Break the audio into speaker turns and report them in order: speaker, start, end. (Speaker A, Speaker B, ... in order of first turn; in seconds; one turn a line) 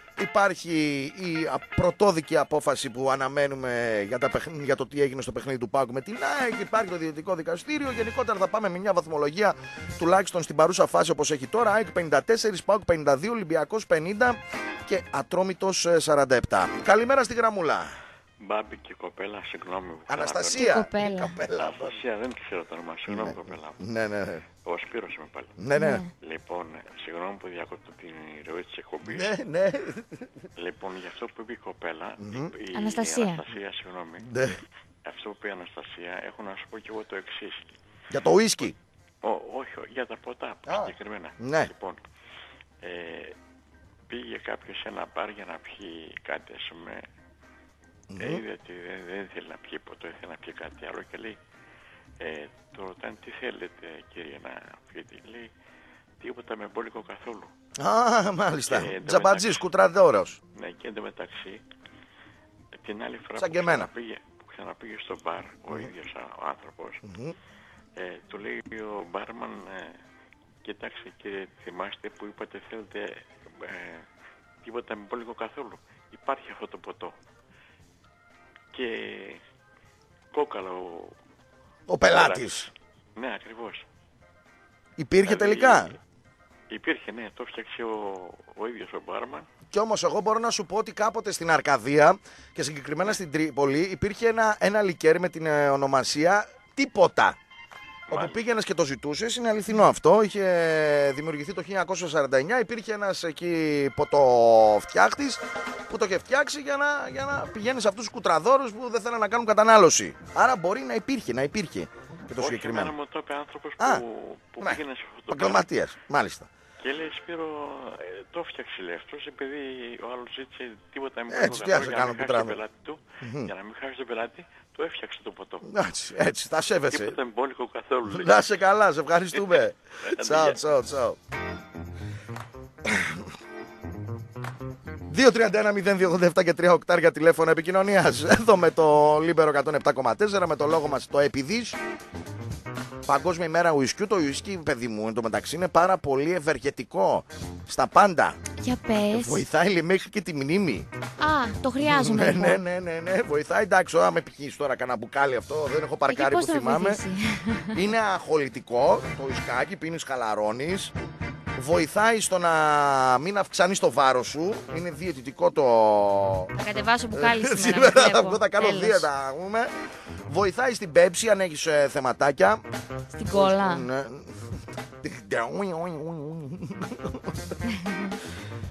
Speaker A: 0.2-17.9
Speaker B: 18.4-20.8
Speaker A: 20.1-21.9
Speaker C: 20.5-21.4
Speaker B: 21.5-23.9
Speaker A: 23.1-24.4
Speaker B: 24.6-25.6
Speaker A: 25.6-26.0
Speaker C: 25.8-26.1
Speaker B: 26.2-29.4
Speaker A: 29.1-30.3
Speaker B: 30.6-34.3
Speaker A: 32.2-32.5
Speaker C: 32.7-33.4
Speaker A: 34.2-34.6
Speaker B: 35.0-37.7
Speaker A: 38.1-38.8
Speaker B: 39.2-42.0
Speaker A: 40.7-41.7
Speaker B: 42.8-43.4
Speaker B: 44.1-47.0
Speaker A: 48.1-48.4
Speaker B: 48.2-51.4
Speaker B: 52.2-55.5
Speaker B: 56.2-57.5
Speaker A: 57.8-60.4
Speaker B: 58.6-59.7
Speaker B: 60.5-61.6
Speaker B: 62.7-67.0
Speaker A: 63.4-63.9
Speaker A: 67.0-67.3
Speaker B: 68.0-70.0
Speaker B: 70.6-74.1
Speaker B: 74.6-77.1
Speaker B: 78.7-79.4
Speaker B: 80.3-81.2
Speaker A: 81.9-82.7
Speaker B: 82.0-83.9
Speaker A: 85.0-86.0
Speaker B: 85.2-86.0
Speaker B: 86.7-89.5
Speaker A: 89.7-97.4
Speaker B: 98.1-98.4
Speaker A: 98.1-113.0
Speaker B: 112.3-115.7
Speaker A: 114.6-116.5
Speaker B: 116.8-125.7
Speaker A: 121.3-122.6
Speaker A: 123.2-123.5
Speaker A: 125.6-127.2
Speaker B: 126.9-128.4
Speaker A: 128.1-131.2
Speaker B: 129.3-130.6
Speaker A: 132.8-133.3
Speaker A: 135.1-141.8
Speaker A: 143.1-148.4
Speaker C: 148.6-149.4
Speaker A: 149.1-150.9
Speaker C: 151.2-152.6
Speaker A: 151.9-157.0
Speaker C: 156.1-157.8
Speaker A: 157.7-160.9
Speaker A: 161.6-166.5
Speaker C: 166.6-169.1
Speaker A: 167.1-169.7
Speaker A: 170.3-172.6
Speaker C: 173.1-173.9
Speaker A: 173.3-174.4
Speaker A: 175.0-177.4
Speaker C: 177.7-178.2